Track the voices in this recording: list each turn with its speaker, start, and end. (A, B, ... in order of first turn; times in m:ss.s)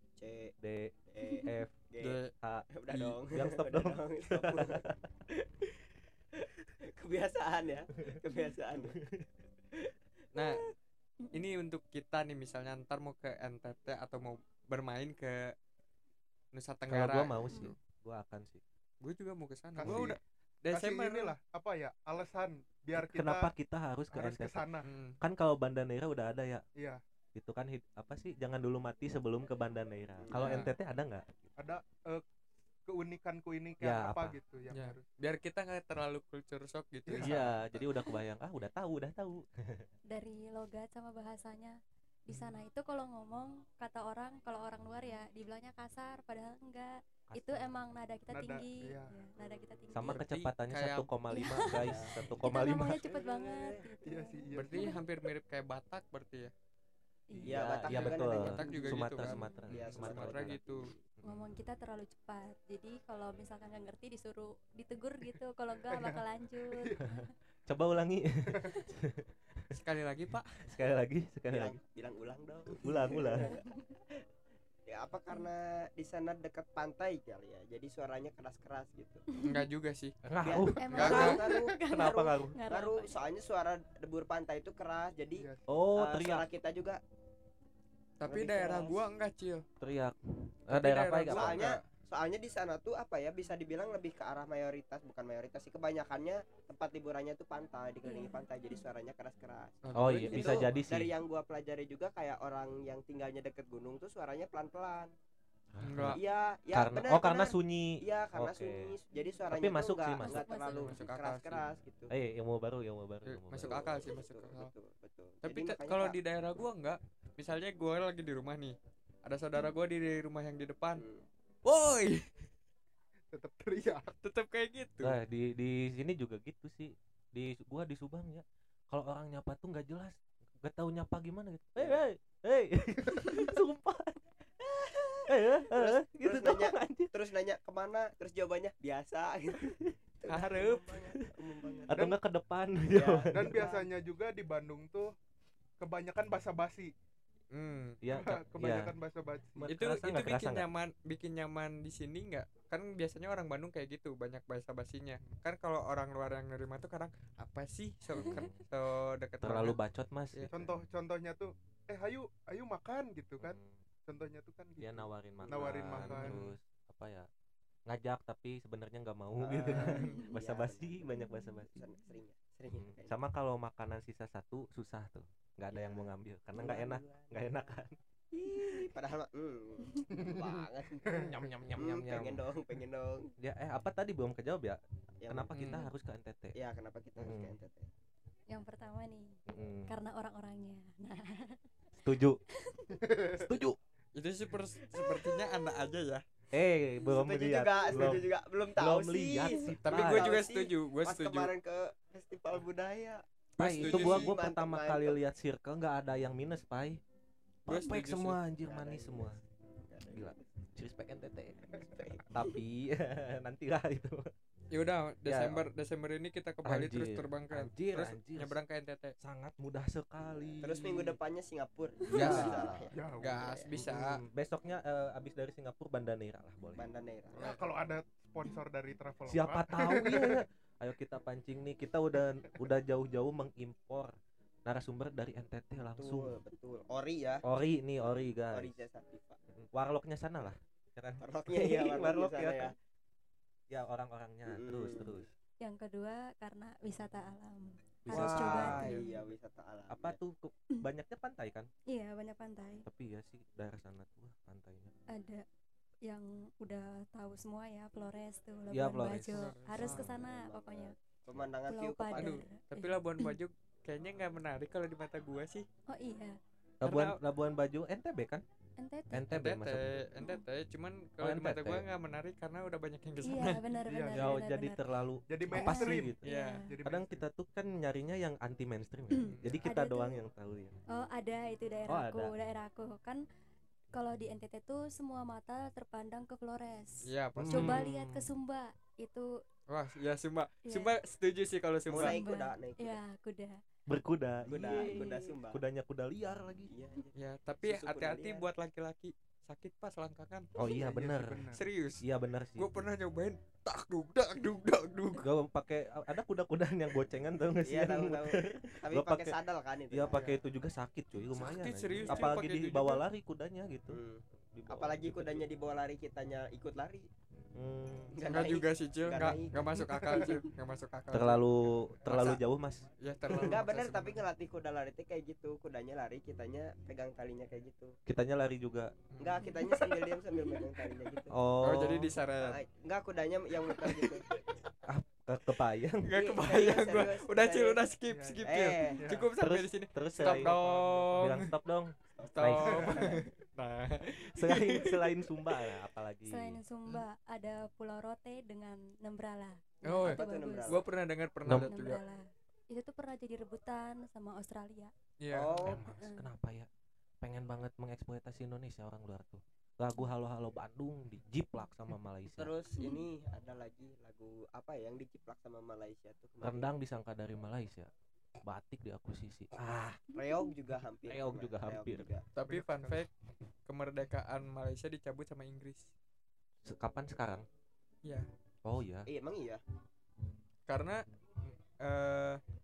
0:00.2-0:00.5 A
0:00.6-0:01.7 B
0:01.1-0:02.2 A
0:02.0-0:02.3 C
0:02.4-0:05.0 B
0:02.7-0:09.0 A
0:08.8-0:09.3 B
0:09.8-0:10.5 A
0:10.3-0:10.6 C
0:11.3-0:15.5 C
0:16.5-0:17.7 C
0:16.9-0:18.6 B
0:17.4-0:17.7 D
0:19.0-0:21.3 C
0:19.8-0:20.2 E
0:19.8-0:20.2 B
0:20.7-0:23.5 E
0:23.0-0:26.6 B
0:24.1-0:24.9 E
0:24.8-0:25.2 C
0:26.8-0:27.0 E
0:27.3-0:31.4 B
0:30.2-0:30.6 A
0:30.3-0:30.7 C
0:31.6-0:32.2 E
0:32.8-0:35.0 E
0:33.8-0:34.3 B
0:34.7-0:37.5 C
0:37.0-0:37.5 E
0:37.2-0:39.9 B
0:40.1-0:50.2 D
0:47.3-0:47.7 B
0:48.3-0:49.2 E
0:49.9-0:53.0 B
0:50.0-0:51.1 C
0:51.3-0:55.0 D
0:51.8-0:53.9 A
0:54.0-0:55.0 E
0:54.5-0:56.5 C
0:57.3-0:58.1 D
0:57.3-1:00.6 B
0:57.4-1:01.0 A
0:57.8-1:00.9 C
0:58.7-0:59.7 D
1:01.2-1:01.5 B
1:01.2-1:07.3 D
1:05.8-1:07.0 E
1:07.7-1:09.7 B
1:08.5-1:08.8 E
1:09.7-1:10.6 C
1:10.6-1:11.8 B
1:11.5-1:13.8 A
1:12.7-1:13.6 B
1:13.1-1:13.8 D
1:14.9-1:19.2 A
1:19.3-1:19.6 D
1:19.4-1:20.1 C
1:20.2-1:22.6 B
1:20.4-1:27.0 A
1:20.8-1:23.2 D
1:20.9-1:21.4 C
1:25.4-1:25.7 E
1:25.7-1:26.4 B
1:28.2-1:29.6 C
1:28.2-1:29.1 A
1:29.8-1:30.2 B
1:30.7-1:31.8 B
1:30.7-1:31.8 C
1:31.3-1:45.1 A
1:38.0-1:38.8 D
1:39.8-1:40.7 C
1:39.9-1:41.1 B
1:45.7-1:46.2 B
1:45.8-1:46.2 C
1:46.1-1:52.1 A
1:46.7-1:48.9 B
1:49.5-1:50.4 B
1:50.2-1:51.0 D
1:50.6-1:51.6 C
1:52.1-1:53.9 B
1:53.2-1:54.7 C
1:53.6-1:56.2 A
1:55.4-2:01.0 C
2:00.9-2:01.3 A
2:01.6-2:02.3 C
2:03.3-2:04.1 E
2:04.2-2:05.2 C
2:05.0-2:14.2 B
2:14.6-2:22.0 A
2:15.3-2:17.1 B
2:20.3-2:21.0 C
2:21.9-2:23.7 B
2:22.9-2:23.8 A
2:23.3-2:25.1 E
2:25.8-2:26.9 E
2:27.5-2:28.0 C
2:28.0-2:28.9 B
2:28.1-2:29.7 E
2:29.5-2:30.7 B
2:29.7-2:39.8 C
2:38.1-2:38.6 B
2:39.4-2:40.7 B
2:40.5-2:46.4 E
2:43.4-2:43.7 B
2:44.8-2:47.3 B
2:45.9-2:46.6 C
2:47.9-2:51.7 B
2:49.4-2:53.1 A
2:49.7-2:50.1 C
2:52.8-2:58.0 B
2:55.7-2:57.7 A
2:58.3-3:03.3 A
3:01.1-3:02.4 B
3:03.4-3:06.6 B
3:05.2-3:05.8 A
3:05.5-3:05.9 C
3:06.5-3:07.9 A
3:07.2-3:07.6 B
3:08.5-3:11.6 D
3:09.5-3:09.9 B
3:12.0-3:12.4 B
3:12.5-3:13.0 D
3:13.0-3:13.4 E
3:13.4-3:13.8 B
3:14.1-3:16.2 C
3:14.9-3:15.4 D
3:16.5-3:20.4 B
3:17.0-3:25.2 A
3:19.8-3:21.5 C
3:23.6-3:24.3 C
3:23.6-3:27.0 B
3:27.6-3:28.4 C
3:27.6-3:29.4 B
3:28.6-3:30.3 A
3:30.1-3:34.3 B
3:31.7-3:32.5 A
3:34.7-3:39.1 C
3:35.2-3:35.6 B
3:36.6-3:38.6 B
3:39.2-3:40.9 B
3:40.4-3:43.7 A
3:42.1-3:42.9 B
3:42.1-3:42.6 C
3:42.9-3:43.4 E
3:43.2-3:44.2 C
3:43.7-3:46.8 B
3:46.8-3:47.5 A
3:47.4-3:50.4 E
3:49.3-3:56.4 B
3:55.9-3:57.4 A
3:57.4-3:58.8 B
3:58.5-3:59.4 A
3:59.6-4:02.8 B
4:01.2-4:02.7 A
4:03.7-4:05.3 B
4:04.5-4:05.3 A
4:05.6-4:09.0 D
4:08.0-4:09.0 B
4:08.1-4:10.2 A
4:09.9-4:11.7 B
4:11.9-4:12.8 D
4:12.8-4:14.9 B
4:15.1-4:15.4 D
4:16.0-4:20.9 D
4:18.7-4:19.5 B
4:19.2-4:20.0 C
4:19.8-4:22.4 A
4:21.7-4:23.3 D
4:22.2-4:25.6 C
4:25.9-4:26.4 D
4:26.8-4:28.4 B
4:26.8-4:27.2 C
4:28.8-4:29.4 D
4:29.1-4:30.1 B
4:29.3-4:33.6 C
4:31.2-4:31.8 B
4:33.2-4:34.8 D
4:33.9-4:34.4 E
4:34.1-4:36.2 B
4:35.3-4:37.2 E
4:35.5-4:36.7 D
4:36.2-4:36.6 C
4:36.8-4:40.8 B
4:39.1-4:40.2 D
4:39.2-4:39.7 C
4:40.9-4:43.2 D
4:41.9-4:42.3 B
4:43.9-4:49.4 D
4:47.0-4:47.8 C
4:47.4-4:48.3 B
4:49.7-4:52.2 C
4:50.6-4:50.9 D
4:51.9-4:53.0 A
4:51.9-4:53.6 D
4:53.9-4:56.7 B
4:54.5-4:55.6 A
4:56.7-4:58.5 A
4:57.1-5:00.5 C
5:00.6-5:01.5 B
5:00.6-5:00.9 A
5:00.6-5:01.6 E
5:01.5-5:02.0 C
5:02.0-5:02.8 B
5:02.6-5:05.2 C
5:05.2-5:09.4 B
5:07.6-5:10.3 A
5:09.9-5:14.0 B
5:10.1-5:10.4 E
5:11.3-5:13.0 C
5:13.9-5:17.1 A
5:14.5-5:15.5 B
5:17.5-5:18.4 B
5:18.1-5:20.4 A
5:18.2-5:21.5 C
5:21.1-5:22.9 B
5:22.0-5:22.4 C
5:23.0-5:24.2 C
5:23.4-5:28.0 A
5:28.1-5:28.9 B
5:29.1-5:29.5 C
5:29.2-5:31.4 A
5:29.4-5:29.8 D
5:31.3-5:32.1 B
5:31.6-5:32.6 C
5:32.4-5:34.2 A
5:33.7-5:34.4 C
5:34.8-5:36.1 B
5:36.0-5:41.5 C
5:36.1-5:37.8 A
5:38.0-5:39.3 E
5:38.4-5:39.1 A
5:39.4-5:43.2 B
5:42.2-5:43.3 A
5:42.3-5:45.2 C
5:44.0-5:46.6 B
5:46.2-5:50.9 D
5:49.8-5:52.0 C
5:50.0-5:50.8 A
5:51.4-5:51.7 B
5:51.7-5:54.9 D
5:55.2-5:55.8 C
5:55.3-5:55.8 A
5:55.6-5:56.7 B
5:55.9-5:56.3 D
5:57.2-6:02.5 B
6:02.3-6:06.7 A
6:02.8-6:03.0 D
6:06.4-6:07.9 B
6:08.4-6:10.0 B
6:10.1-6:12.3 A
6:11.1-6:12.1 B
6:12.4-6:13.1 C
6:12.4-6:13.1 E
6:13.6-6:15.9 C
6:16.6-6:17.4 B
6:18.6-6:19.1 B
6:19.0-6:19.6 A
6:20.7-6:22.4 C